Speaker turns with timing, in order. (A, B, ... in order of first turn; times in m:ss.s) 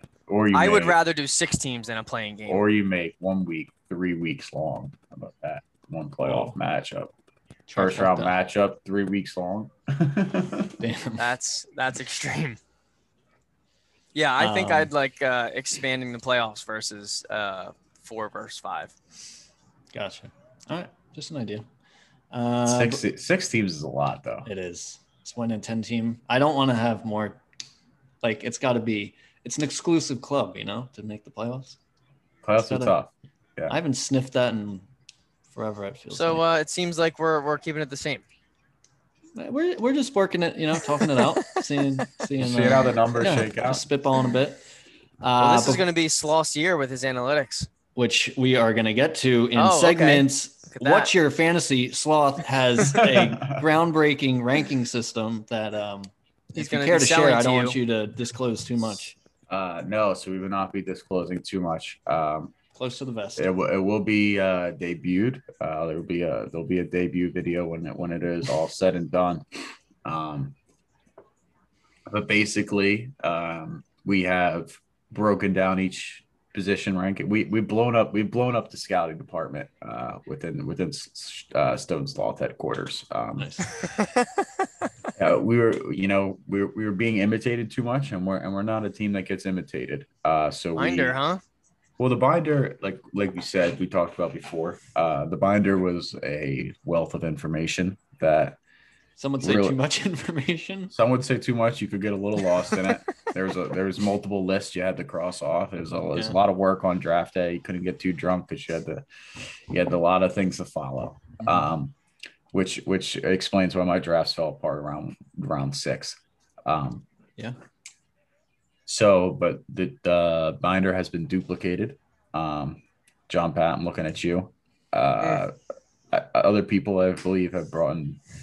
0:00.3-0:01.0 A
0:00.5-0:02.6 B
0:02.5-0:07.1 A
0:06.2-0:06.5 C
0:07.7-0:08.4 C
0:07.8-0:10.8 A
0:10.8-0:11.3 C
0:11.2-0:12.6 B
0:14.1-0:18.9 B
0:14.4-0:14.9 C
0:19.9-0:21.6 C
0:22.3-0:23.0 C
0:22.7-0:24.5 A
0:24.4-0:27.4 C
0:28.2-0:31.8 C
0:32.4-0:33.8 A
0:32.6-0:32.9 C
0:33.7-0:34.8 C
0:35.5-0:36.4 C
0:36.1-0:38.2 B
0:39.4-0:44.6 C
0:41.0-0:41.3 B
0:42.4-0:43.8 A
0:45.2-0:45.8 C
0:45.4-0:47.7 B
0:48.0-0:59.2 C
0:49.5-0:51.1 B
0:52.8-0:53.6 A
0:56.5-0:57.8 B
0:59.5-1:02.5 A
1:02.8-1:03.5 C
1:03.4-1:09.4 A
1:10.0-1:10.6 A
1:12.1-1:23.5 A
1:23.4-1:23.8 C
1:24.0-1:24.3 B
1:25.2-1:31.1 A
1:30.8-1:31.4 B
1:32.0-1:38.6 A
1:39.2-1:40.9 C
1:39.4-1:39.8 A
1:40.9-1:49.0 A
1:49.7-1:51.9 A
1:51.4-1:51.7 C
1:52.5-1:57.0 A
1:58.8-2:05.5 A
2:06.1-2:08.2 A